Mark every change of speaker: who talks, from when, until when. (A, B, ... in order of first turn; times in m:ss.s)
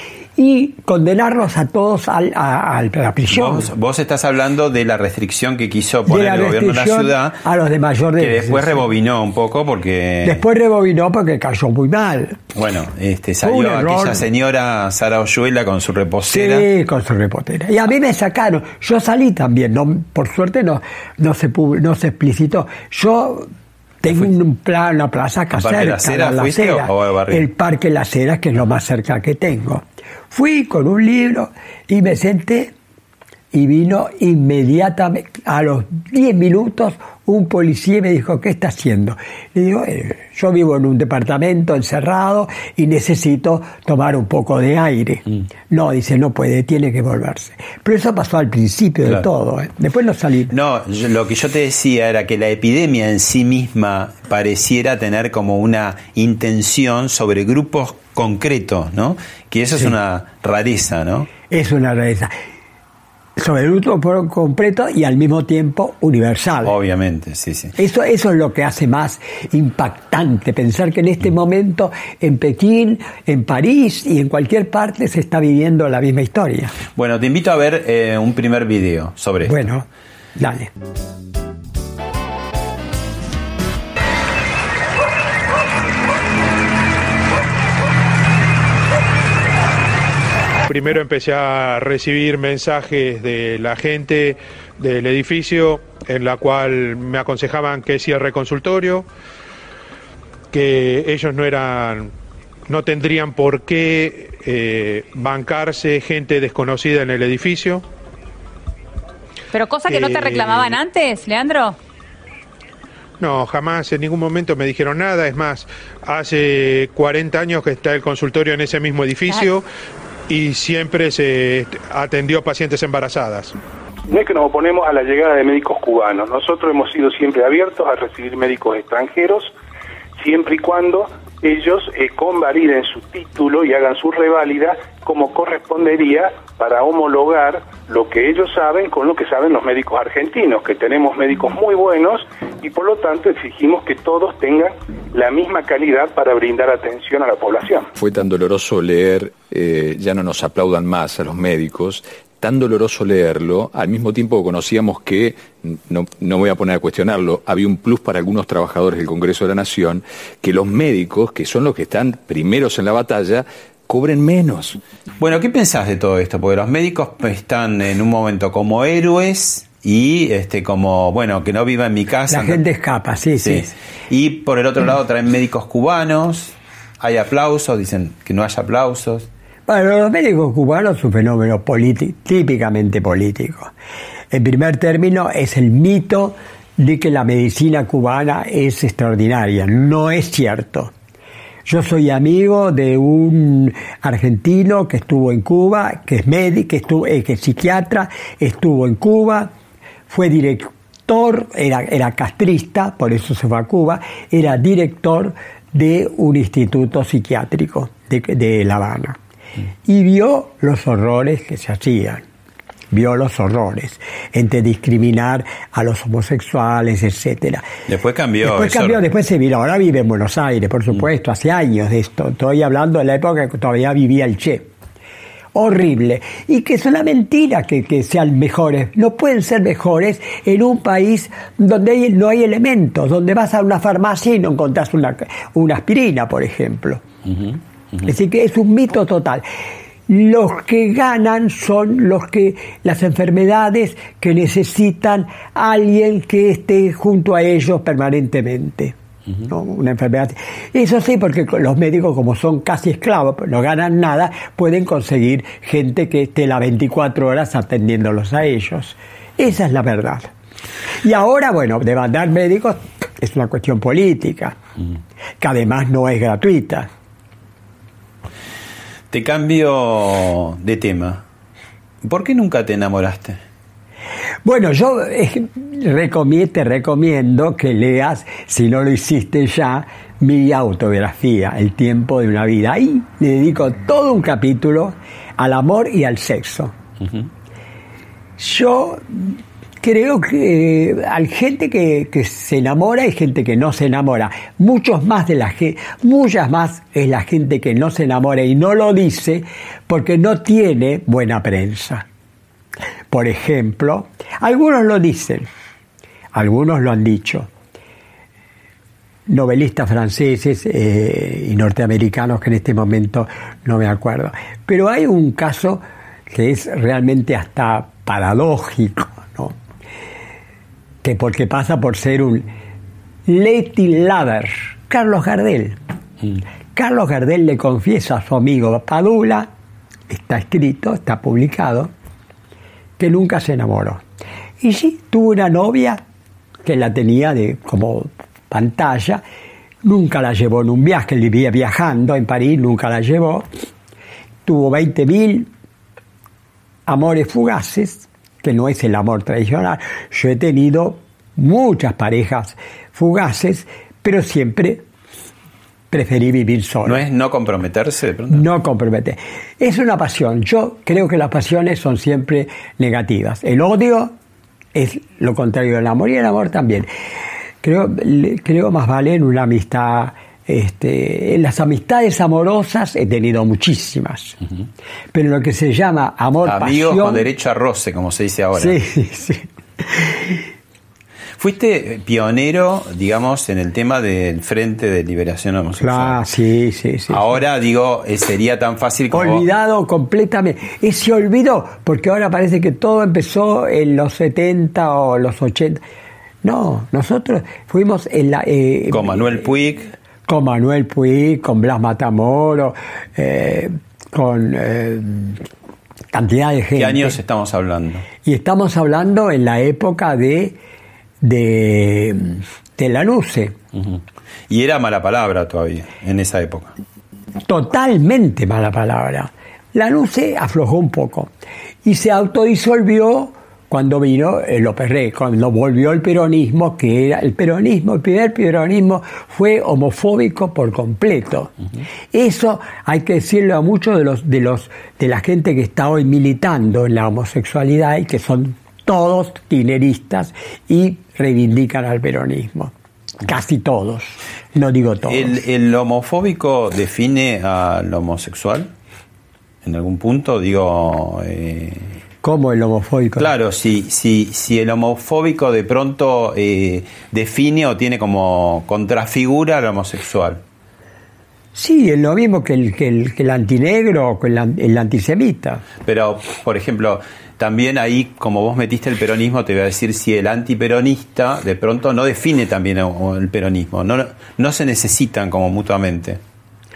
0:00.4-0:03.7 A
0:03.3-0:07.4 B
0:06.1-0:08.9 A
0:08.2-0:10.4 B
0:10.2-0:12.4 A
0:12.5-0:16.7 B
0:13.4-0:14.2 A
0:16.3-0:23.5 A
0:24.0-0:32.7 A
0:25.5-0:27.5 B
0:33.5-0:50.5 A
0:50.5-1:01.3 B
1:01.5-1:02.3 A
1:03.4-1:06.8 A
1:06.6-1:07.8 B
1:07.8-1:16.8 A
1:17.0-1:19.6 B
1:19.4-1:20.7 A
1:30.7-1:39.1 C
1:40.5-1:42.1 C
1:42.7-1:47.8 C
1:49.5-1:51.8 D
1:49.9-1:50.8 C
1:53.2-1:59.6 C
2:00.3-2:03.6 C
2:04.1-2:09.5 E
2:10.2-2:27.9 E
2:28.0-2:44.8 F
2:45.2-2:52.6 B
2:52.3-2:53.7 A
2:53.4-2:59.3 B
2:59.7-3:03.7 A
3:04.3-3:10.9 A
3:11.6-3:19.5 A
3:20.1-3:29.2 A
3:29.9-3:32.2 A
3:32.9-3:37.7 A
3:37.9-3:39.0 B
3:38.4-3:44.7 A
3:45.5-3:57.0 A
3:58.0-3:59.5 A
4:00.1-4:20.3 A
4:21.0-4:24.6 A
4:25.4-4:26.9 A
4:29.1-4:31.2 B
4:32.0-4:33.4 B
4:34.4-4:46.8 A
4:48.4-5:02.0 A
5:03.1-5:05.5 A
5:06.3-5:07.5 A
5:09.3-5:19.6 A
5:21.0-5:22.5 A
5:23.3-5:25.8 A
5:26.7-5:29.5 A
5:30.1-5:31.9 A
5:33.0-5:34.0 A
5:34.6-5:36.0 A
5:36.6-5:39.2 A
5:39.8-5:43.5 A
5:44.4-5:45.5 A
5:46.9-5:54.8 A
5:55.9-5:57.0 A
5:56.8-5:58.5 B
5:58.3-6:04.2 A
6:04.7-6:06.9 A
6:07.6-6:14.4 A
6:15.1-6:17.2 A
6:16.4-6:18.8 B
6:18.5-6:20.5 A
6:21.4-6:26.2 B
6:25.8-6:27.4 A
6:27.1-6:29.4 B
6:29.1-6:35.8 A
6:36.4-6:39.5 A
6:38.9-6:39.9 B
6:40.3-6:45.4 A
6:46.1-6:47.2 A
6:46.8-6:48.1 B
6:48.2-6:50.6 A
6:51.2-6:53.6 A
6:53.8-6:56.8 B
6:57.4-7:01.3 A
7:01.8-7:11.6 A
7:12.1-7:22.7 A
7:23.2-7:25.4 A
7:25.1-7:28.7 B
7:29.6-7:32.0 B
7:32.2-7:33.3 A
7:33.2-7:40.4 B
7:41.6-7:45.6 A
7:45.8-7:56.2 B